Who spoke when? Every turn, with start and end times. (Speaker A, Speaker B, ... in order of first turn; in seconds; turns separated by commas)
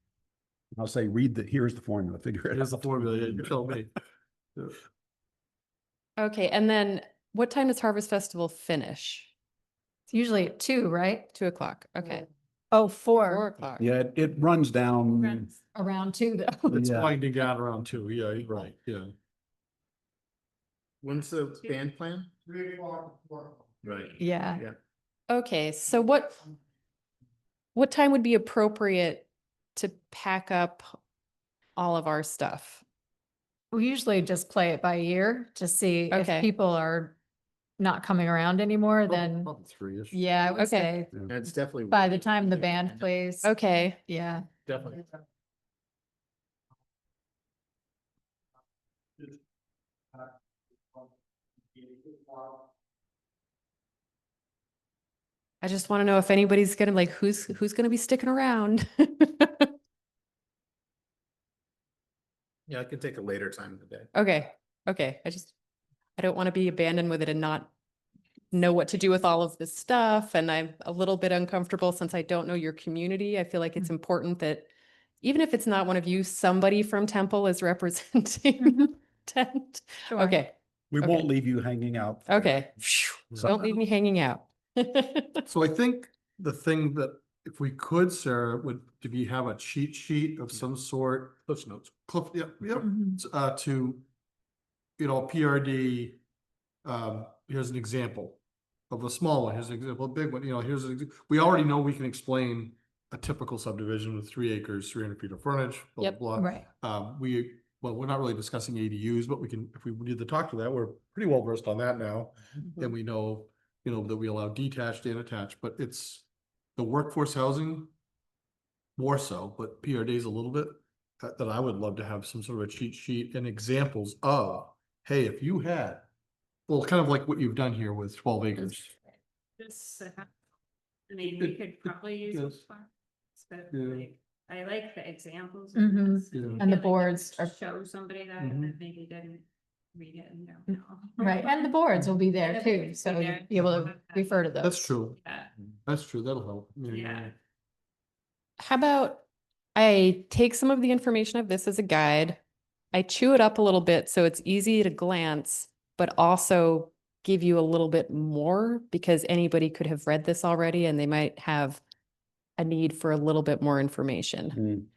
Speaker A: 0.8-3.8, Speaker B: 2.5-3.9, Speaker C: 6.2-9.3, Speaker D: 10.1-11.3, Speaker C: 11.3-12.3, Speaker D: 12.7-13.4, Speaker C: 13.3-13.9, Speaker A: 13.8-15.5, Speaker E: 15.2-15.6, Speaker D: 15.7-16.9, Speaker B: 16.7-19.1, Speaker A: 16.7-17.2, Speaker F: 21.0-22.3, Speaker B: 22.6-23.2, Speaker F: 23.8-24.8, Speaker D: 24.2-24.6, Speaker C: 25.3-26.4, Speaker C: 27.8-30.9, Speaker C: 31.8-32.8, Speaker D: 33.7-37.2, Speaker C: 36.1-36.5, Speaker D: 37.8-39.5, Speaker B: 39.1-40.5, Speaker D: 40.1-41.3, Speaker C: 40.6-40.9, Speaker F: 41.3-43.1, Speaker D: 41.9-44.5, Speaker C: 43.4-44.0, Speaker F: 44.7-45.0, Speaker C: 55.6-59.7, Speaker F: 62.7-64.1, Speaker C: 64.1-65.5, Speaker C: 66.2-67.7, Speaker C: 68.5-74.7, Speaker C: 75.2-81.3, Speaker D: 78.6-78.9, Speaker D: 80.1-80.4, Speaker A: 80.9-82.7, Speaker C: 82.3-85.4, Speaker A: 83.3-83.6, Speaker B: 85.5-91.4, Speaker F: 91.5-91.9, Speaker B: 92.1-94.0, Speaker D: 92.7-93.2, Speaker B: 95.0-96.2, Speaker B: 96.8-116.3, Speaker D: 106.3-106.7, Speaker B: 116.8-117.9, Speaker B: 119.0-126.1, Speaker B: 126.7-128.9, Speaker E: 129.6-130.3, Speaker E: 131.1-141.6, Speaker B: 131.2-132.6, Speaker B: 133.7-134.1, Speaker D: 135.8-137.6, Speaker B: 136.3-136.7, Speaker B: 138.4-138.8, Speaker D: 141.2-144.9, Speaker E: 142.4-144.4, Speaker B: 144.6-145.2, Speaker E: 145.2-145.5, Speaker B: 145.9-147.3, Speaker E: 146.9-147.3, Speaker C: 148.6-152.4, Speaker C: 152.9-161.8, Speaker C: 162.6-164.6, Speaker A: 164.5-164.9